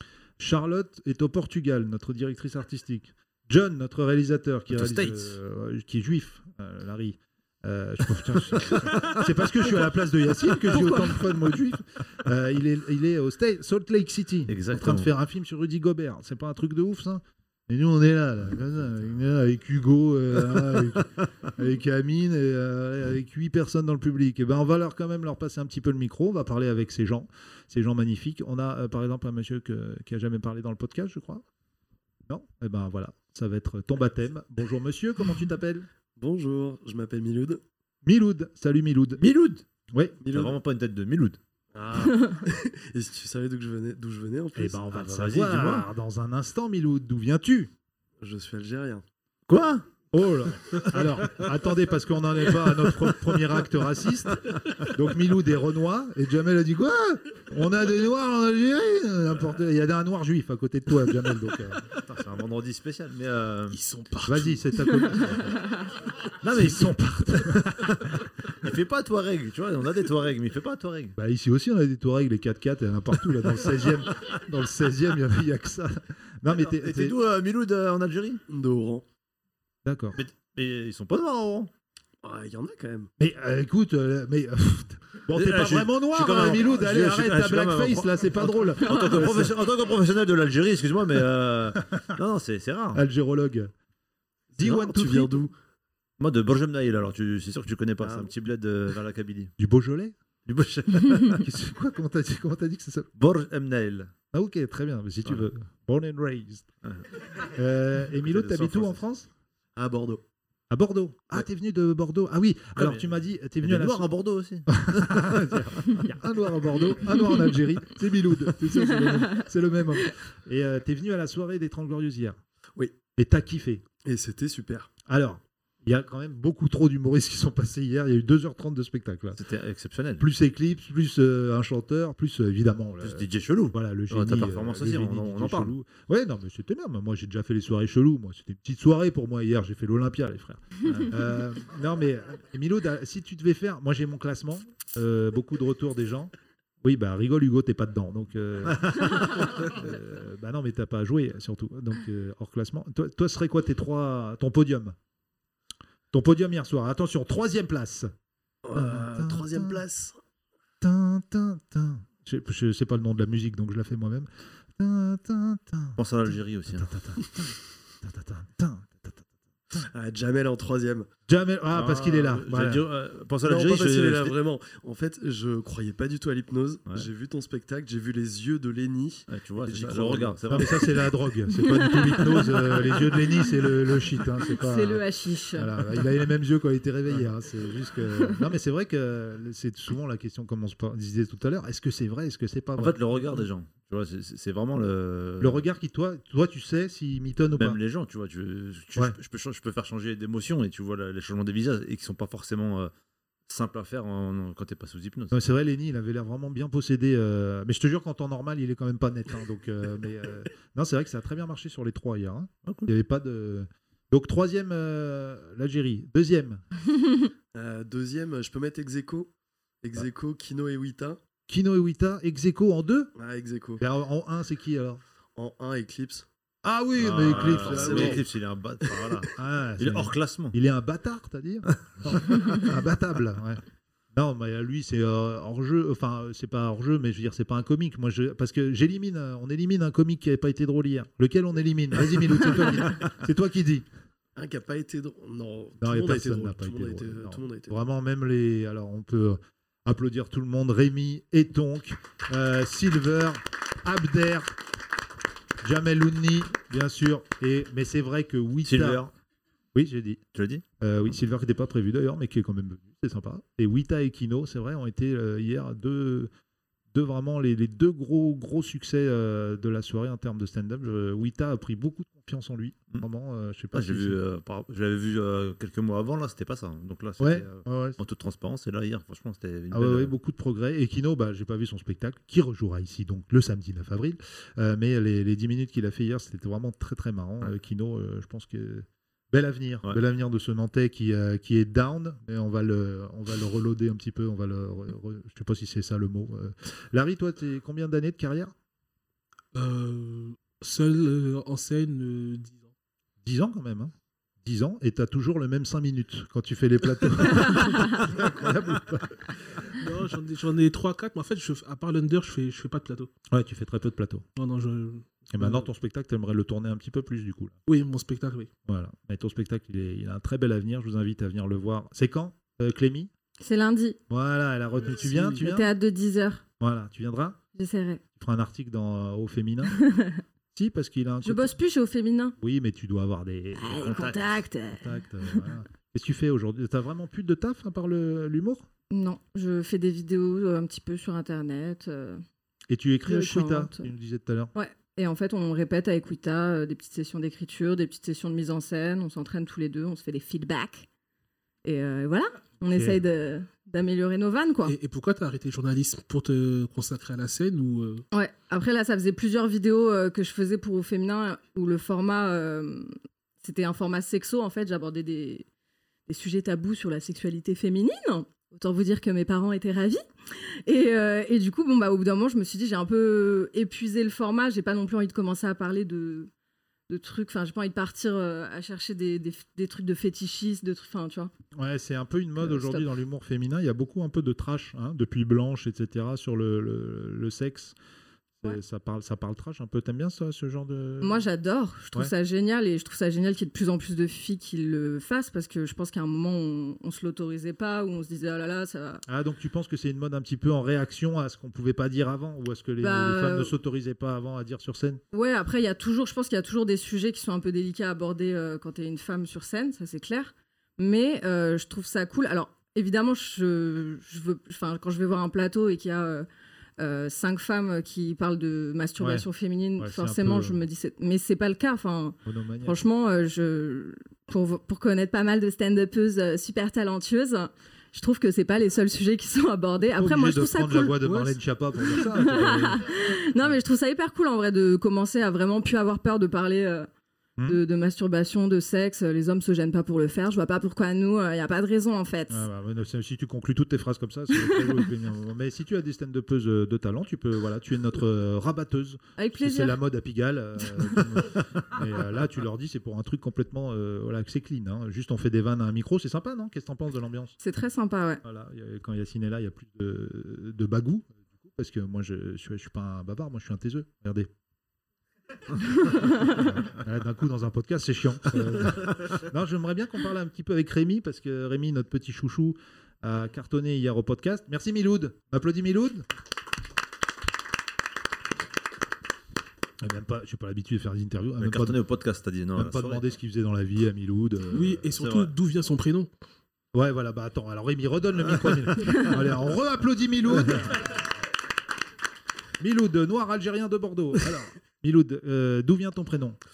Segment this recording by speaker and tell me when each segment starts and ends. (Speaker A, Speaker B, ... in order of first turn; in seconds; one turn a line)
Speaker A: 0.4-31.4
Speaker B: 4.7-5.4
Speaker B: 8.6-9.2
Speaker B: 14.5-15.1
Speaker A: 32.3-35.9
Speaker C: 36.1-37.6
Speaker A: 38.0-39.2
Speaker B: 39.2-39.6
Speaker A: 39.9-40.2
Speaker C: 40.2-40.6
Speaker B: 40.3-41.4
Speaker C: 41.7-44.8
Speaker A: 44.5-47.7
Speaker B: 44.9-45.9
Speaker C: 48.2-49.0
Speaker B: 49.5-49.9
Speaker A: 50.1-61.9
Speaker B: 62.0-63.8
Speaker D: 63.7-65.1
Speaker A: 64.2-65.7
Speaker A: 66.4-68.0
Speaker B: 66.4-71.1
Speaker A: 71.1-77.2
Speaker B: 76.5-78.4
Speaker C: 78.5-79.0
Speaker A: 79.8-80.2
Speaker B: 80.2-81.7
Speaker C: 82.2-83.1
Speaker A: 83.2-89.6
Speaker B: 85.3-93.0
Speaker A: 91.8-92.1
Speaker A: 92.9-93.7
Speaker A: 94.6-95.4
Speaker B: 94.6-95.3
Speaker C: 94.8-95.5
Speaker B: 96.2-99.5
Speaker C: 98.0-98.3
Speaker A: 99.6-100.1
Speaker B: 100.5-101.5
Speaker A: 101.2-103.1
Speaker B: 103.2-104.1
Speaker A: 104.3-106.7
Speaker A: 107.5-109.3
Speaker B: 108.2-109.0
Speaker C: 109.8-110.2
Speaker A: 110.7-114.1
Speaker B: 112.8-116.0
Speaker A: 114.7-122.4
Speaker E: 119.0-119.4
Speaker A: 123.2-123.8
Speaker C: 124.0-124.9
Speaker A: 125.1-129.4
Speaker B: 129.4-130.3
Speaker A: 130.2-154.9
Speaker B: 133.0-135.7
Speaker B: 148.9-149.5
Speaker A: 156.1-158.1
Speaker C: 158.6-160.2
Speaker A: 158.7-159.8
Speaker A: 160.8-169.8
Speaker B: 165.9-166.9
Speaker C: 169.9-171.1
Speaker A: 171.3-172.8
Speaker B: 171.7-174.3
Speaker C: 173.4-180.4
Speaker B: 179.3-180.9
Speaker A: 180.5-193.4
Speaker E: 181.6-182.5
Speaker E: 184.6-185.7
Speaker B: 192.8-195.6
Speaker A: 195.4-197.8
Speaker B: 197.6-202.9
Speaker B: 203.5-205.3
Speaker A: 205.3-216.6
Speaker B: 212.7-212.9
Speaker C: 217.5-219.3
Speaker C: 219.8-221.2
Speaker A: 221.5-223.1
Speaker C: 223.1-223.8
Speaker A: 223.8-225.0
Speaker C: 225.3-226.2
Speaker A: 226.6-228.2
Speaker B: 227.0-230.5
Speaker C: 227.2-228.2
Speaker A: 229.3-243.9
Speaker C: 244.3-247.8
Speaker A: 245.8-254.6
Speaker A: 255.6-259.1
Speaker B: 258.6-259.1
Speaker A: 259.7-260.2
Speaker B: 260.3-260.6
Speaker A: 260.8-266.3
Speaker A: 266.9-274.2
Speaker B: 273.7-280.1
Speaker A: 277.2-278.0
Speaker A: 279.7-298.5
Speaker D: 299.5-302.7
Speaker A: 303.2-309.6
Speaker D: 309.8-313.1
Speaker A: 313.3-314.2
Speaker D: 314.4-315.7
Speaker A: 315.3-317.6
Speaker D: 317.6-318.5
Speaker A: 318.6-323.1
Speaker E: 323.4-324.0
Speaker A: 324.1-325.7
Speaker E: 324.9-326.4
Speaker A: 326.6-327.4
Speaker E: 327.5-328.0
Speaker A: 328.1-329.8
Speaker E: 329.7-330.2
Speaker A: 330.5-331.6
Speaker E: 331.2-332.4
Speaker A: 332.4-338.7
Speaker E: 333.6-335.4
Speaker B: 333.9-334.2
Speaker E: 338.9-342.2
Speaker A: 342.7-344.5
Speaker E: 343.1-343.9
Speaker E: 344.5-350.9
Speaker E: 351.6-354.7
Speaker A: 352.7-353.0
Speaker D: 354.6-358.0
Speaker E: 358.1-365.4
Speaker E: 366.1-376.3
Speaker E: 376.9-381.3
Speaker A: 381.5-387.8
Speaker E: 382.4-382.8
Speaker A: 388.4-391.2
Speaker E: 391.0-399.0
Speaker A: 399.1-405.0
Speaker E: 402.8-403.5
Speaker E: 405.1-416.2
Speaker E: 416.8-431.0
Speaker A: 419.0-419.2
Speaker A: 419.8-420.6
Speaker A: 422.2-422.8
Speaker A: 429.9-433.6
Speaker D: 431.0-431.4
Speaker E: 432.0-436.9
Speaker E: 437.4-442.4
Speaker A: 442.3-457.4
Speaker E: 449.2-449.8
Speaker E: 457.4-458.2
Speaker A: 458.2-464.3
Speaker A: 466.0-476.0
Speaker A: 479.8-481.8
Speaker B: 481.4-483.0
Speaker A: 482.5-484.9
Speaker D: 484.5-486.1
Speaker B: 485.0-485.3
Speaker A: 486.7-491.0
Speaker A: 492.6-496.4